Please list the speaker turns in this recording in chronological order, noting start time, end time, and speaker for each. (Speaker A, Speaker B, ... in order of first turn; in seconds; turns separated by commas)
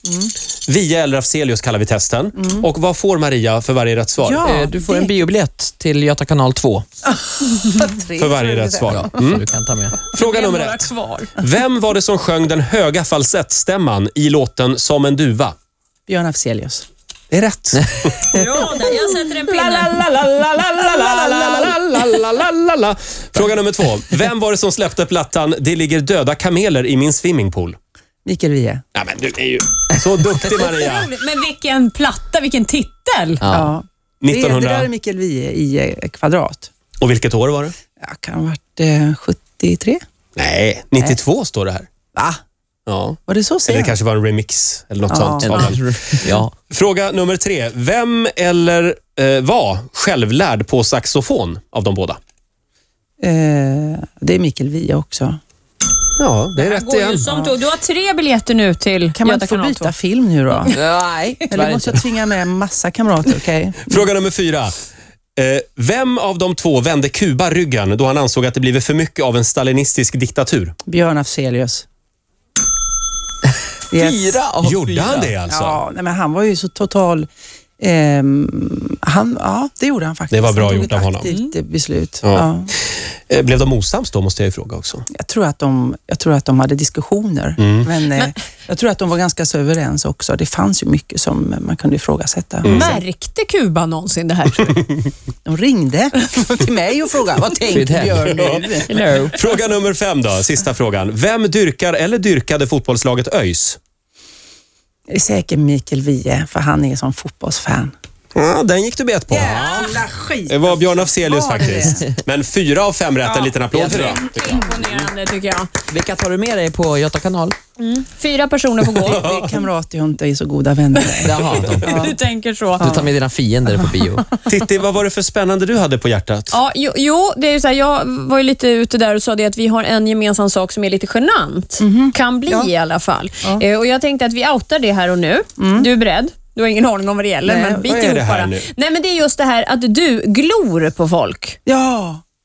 Speaker A: 0.7-4.5, Speaker B: 2.4-2.6, Speaker B: 4.2-5.2, Speaker C: 4.4-6.8, Speaker B: 7.2-9.2, Speaker A: 8.2-9.4, Speaker C: 8.9-10.0, Speaker D: 10.1-11.3, Speaker A: 10.1-10.8, Speaker A: 11.4-15.5, Speaker B: 16.1-16.8, Speaker A: 17.3-18.6, Speaker D: 18.3-20.0, Speaker B: 18.3-18.7, Speaker A: 19.4-27.8, Speaker B: 21.0-21.7, Speaker B: 28.2-28.8, Speaker A: 28.9-31.1, Speaker D: 30.5-33.4, Speaker C: 33.4-33.7, Speaker B: 33.5-36.7, Speaker A: 34.2-34.9, Speaker A: 37.0-37.7, Speaker B: 38.0-40.0, Speaker A: 40.4-41.9, Speaker B: 42.1-42.4, Speaker A: 42.9-52.2, Speaker B: 43.3-44.0, Speaker B: 45.1-45.5, Speaker C: 45.4-46.5, Speaker B: 53.2-55.4, Speaker A: 56.2-57.3, Speaker D: 56.5-59.9, Speaker B: 59.1-60.8, Speaker C: 60.7-62.0, Speaker B: 61.5-64.1, Speaker A: 63.8-64.7, Speaker A: 65.4-70.7, Speaker B: 70.8-71.8, Speaker C: 73.5-75.3, Speaker B: 73.9-74.4, Speaker A: 74.6-75.8, Speaker B: 75.5-77.3, Speaker B: 77.8-82.7, Speaker A: 80.3-81.3, Speaker A: 83.3-85.0, Speaker B: 85.1-93.0, Speaker A: 87.6-87.9, Speaker A: 92.6-93.0, Speaker D: 92.7-94.9, Speaker B: 95.5-98.9, Speaker C: 97.7-98.3, Speaker A: 98.2-98.7, Speaker C: 98.9-99.3, Speaker A: 99.3-103.8, Speaker B: 105.1-107.9, Speaker A: 108.3-110.0, Speaker B: 109.3-112.1, Speaker C: 109.4-109.9, Speaker A: 110.5-114.5, Speaker B: 113.2-113.6, Speaker C: 113.7-114.2, Speaker D: 113.9-115.7, Speaker C: 115.9-117.6, Speaker D: 117.8-119.2, Speaker B: 119.0-122.2, Speaker A: 119.0-119.5, Speaker D: 120.9-123.0, Speaker C: 121.2-122.1, Speaker B: 122.8-123.1, Speaker C: 122.8-124.3, Speaker B: 123.7-124.1, Speaker A: 124.4-126.6, Speaker D: 126.5-141.6, Speaker B: 131.8-132.7, Speaker B: 135.6-135.9, Speaker B: 137.4-138.2, Speaker A: 137.9-138.7, Speaker B: 141.7-142.2